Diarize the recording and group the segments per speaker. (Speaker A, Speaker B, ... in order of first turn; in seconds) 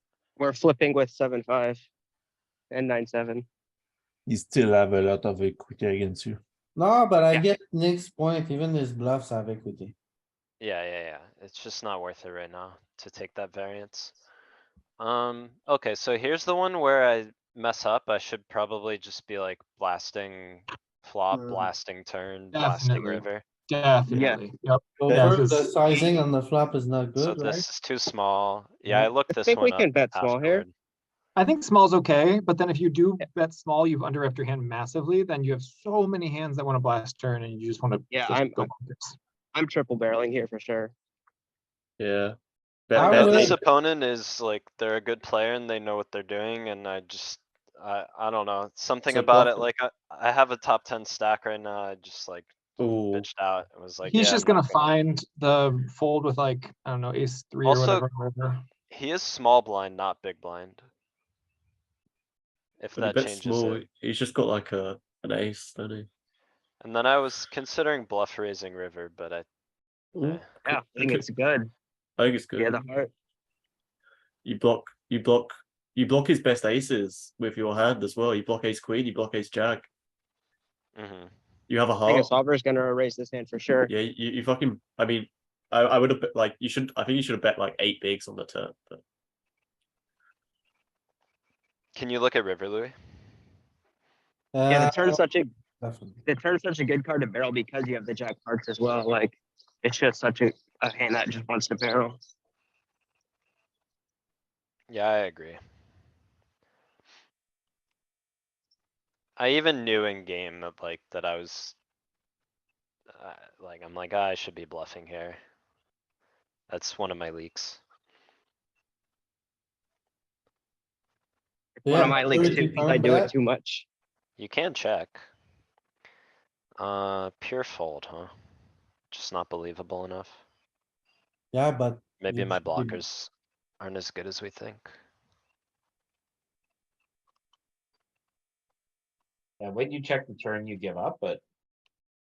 Speaker A: 0.4-1.9, 2.7-3.5, 24.1-24.4, 29.3-30.6, 38.1-38.7, 39.5-40.9, 70.6-71.7, 72.5-73.1, 82.0-83.9, 94.7-95.5, 96.2-102.2, 121.8-123.9
Speaker B: 4.3-6.4
Speaker C: 6.8-9.9, 21.3-21.7, 25.0-27.7, 43.0-43.5, 94.5-95.2, 95.8-96.2, 121.8-123.3, 131.5-133.0
Speaker D: 10.6-14.1, 15.0-23.4, 27.2-30.7, 43.0-52.5, 53.1-54.9, 57.6-58.1, 58.9-60.8, 62.8-63.8, 66.8-69.5, 70.2-70.5, 81.0-81.3, 91.9-93.0, 104.9-105.6, 109.4-111.8, 113.1-115.4, 116.7-117.8, 124.4-125.2, 126.8-128.3, 129.1-130.4, 132.2-134.9
Speaker E: 22.5-26.1, 31.4-39.2, 54.0-58.6
Speaker F: 42.0-42.4, 42.9-43.6, 49.1-49.7, 52.8-53.3, 63.0-66.1, 70.1-71.2, 72.2-72.8, 74.4-79.9, 81.7-82.3, 83.9-89.0
Speaker G: 121.9-123.0, 139.6-141.4